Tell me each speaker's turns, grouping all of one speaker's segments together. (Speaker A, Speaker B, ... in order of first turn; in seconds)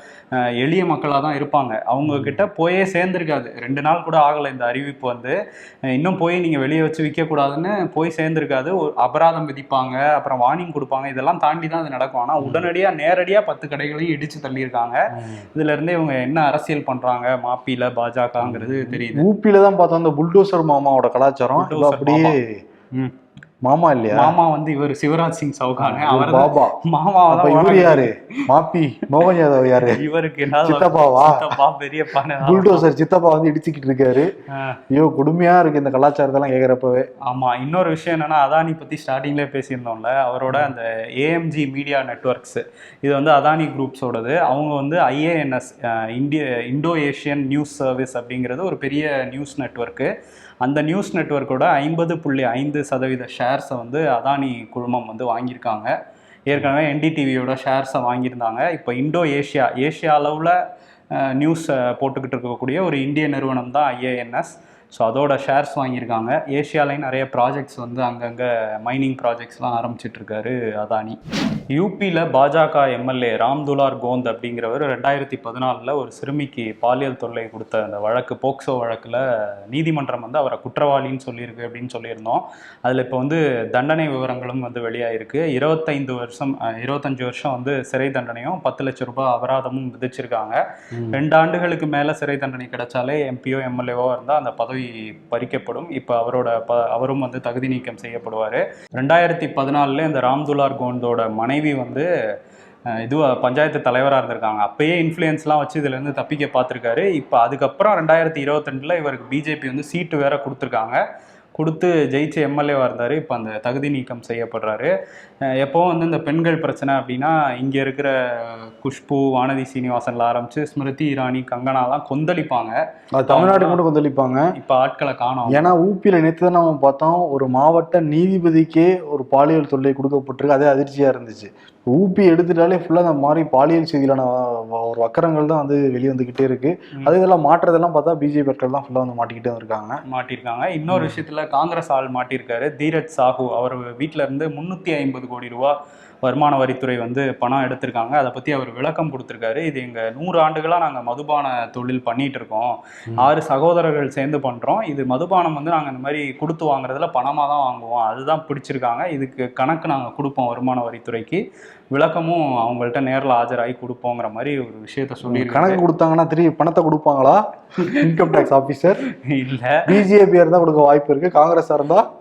Speaker A: 0.4-5.3, 5.9-15.0, 15.5-19.2, 21.6-22.3, 24.1-28.1, 29.9-32.9, 37.3-50.1, 50.6-55.9, 56.5-60.5, 61.1-71.2, 71.7-90.6, 91.1-102.0, 103.0-111.0, 111.6-114.9, 115.6-122.8, 123.3-123.8, 124.6-125.7, 140.1-145.7, 146.2-161.4, 161.9-165.8, 167.8-168.1, 169.2-169.8
Speaker B: 2.0-2.4, 12.4-12.7, 18.4-22.5, 23.6-24.3, 25.8-26.8, 27.3-30.0, 30.6-31.5, 32.4-34.3, 34.9-37.0, 90.9-91.2, 123.2-124.4, 125.5-140.0, 140.9-141.2, 165.2-167.4, 167.9-169.0, 169.9-172.0